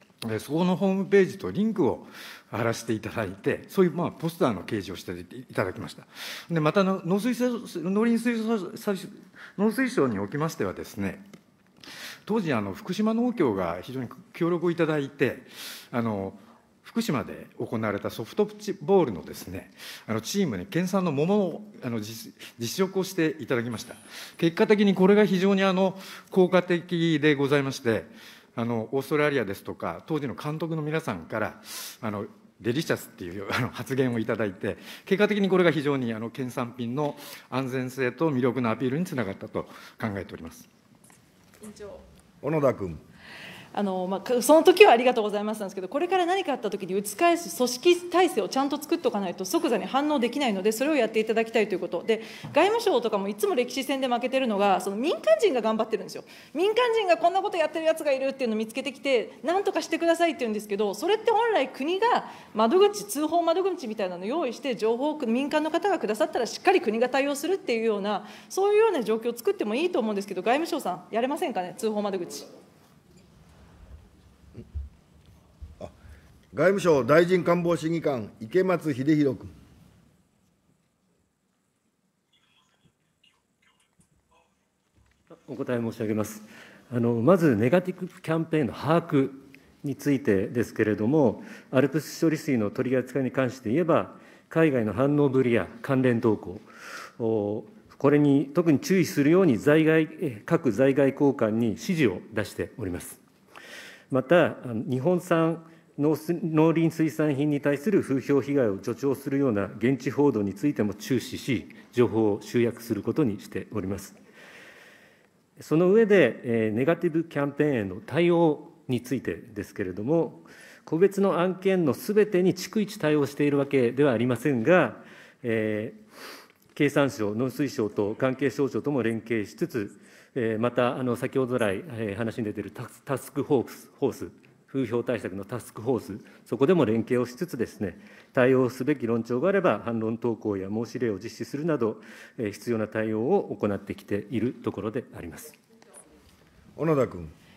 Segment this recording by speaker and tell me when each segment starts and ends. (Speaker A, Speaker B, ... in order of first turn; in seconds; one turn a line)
Speaker A: 0.2-11.2
Speaker A: 12.3-40.7
Speaker B: 41.6-42.0
Speaker C: 42.4-43.0
Speaker B: 43.7-72.5
Speaker C: 76.5-79.5
Speaker D: 85.5-96.7
Speaker D: 97.2-103.2
Speaker D: 104.1-114.2
Speaker D: 115.6-126.0
Speaker D: 126.7-145.6
Speaker C: 146.8-147.3